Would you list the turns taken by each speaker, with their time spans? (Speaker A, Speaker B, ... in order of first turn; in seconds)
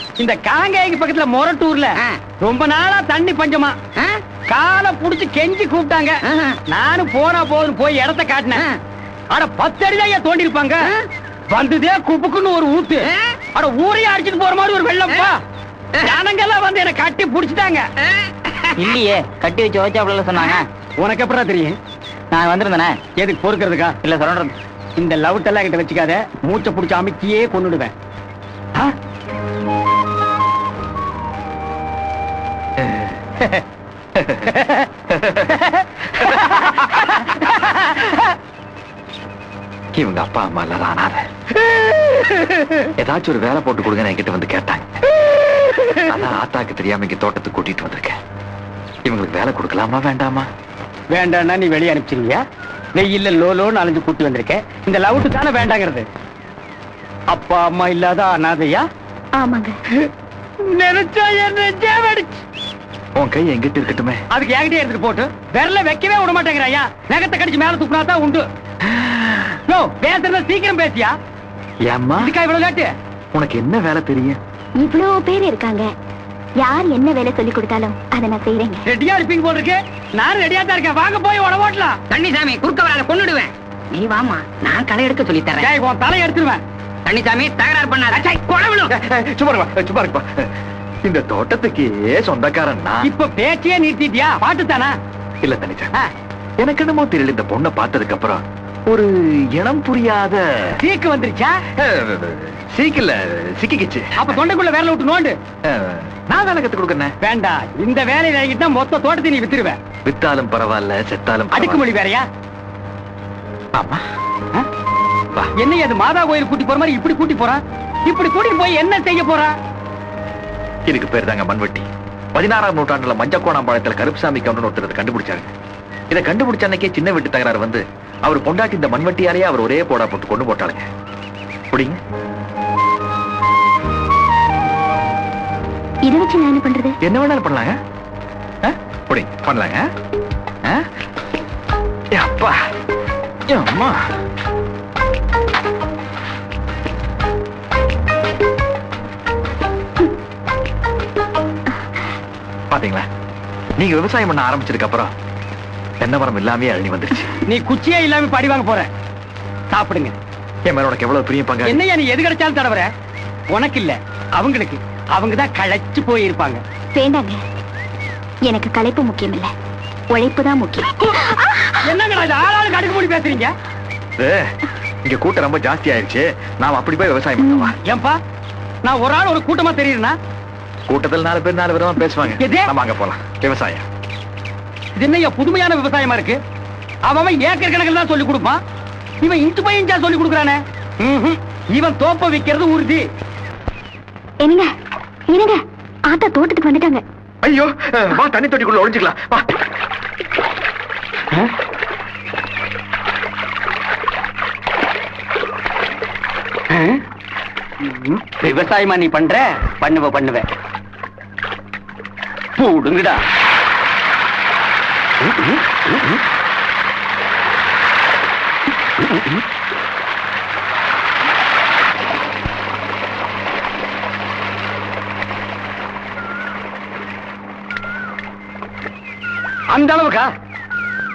Speaker A: 0.2-3.7, 4.5-8.7, 9.3-10.9, 11.5-15.4, 16.0-17.8, 21.0-21.7, 23.1-24.0, 25.0-27.9, 51.1-52.4, 52.9-56.0, 57.3-58.8, 60.6-62.4, 64.3-68.4, 69.7-71.1, 72.2-72.9, 78.9-81.9, 85.6-86.6, 93.0-94.9, 100.8-101.6, 104.2-105.3, 107.2-109.8, 111.5-112.2, 115.5-119.5, 157.5-158.9, 159.7-160.2, 161.6-162.9, 163.5-166.6, 171.8-173.5, 177.8-178.1, 178.8-180.1, 182.3-182.7, 185.0-186.4, 187.0-188.6, 189.2-193.0, 206.7-207.0, 207.8-210.5, 212.6-213.2, 215.2-216.2, 229.7-230.3
Speaker B: 6.3-6.6, 82.1-85.7, 87.0-88.9
Speaker C: 18.8-20.7, 22.3-23.0, 24.0-24.5
Speaker D: 32.8-33.4, 34.1-34.5, 35.1-37.9, 39.9-41.2, 41.9-45.0, 46.0-48.2, 49.0-50.5, 63.1-64.2, 68.8-69.6, 71.8-72.3, 73.3-74.4, 88.9-90.5, 91.0-93.1, 95.4-95.9, 96.6-100.8, 101.8-104.3, 105.6-107.1, 110.0-111.8, 113.7-114.0, 120.9-125.5, 126.1-130.8, 131.7-132.0, 137.0-137.7, 138.6-139.8, 142.1-142.6, 143.5-144.0, 152.7-153.0, 153.8-155.1, 156.0-157.3, 160.7-161.8, 174.2-174.5, 175.0-177.7, 180.9-183.8, 197.4-199.5
Speaker E: 59.4-59.8, 74.8-75.9, 76.6-78.8, 136.0-136.9, 166.9-167.4, 168.4-169.5, 170.1-171.8, 177.4-177.7, 194.4-194.7, 195.3-197.0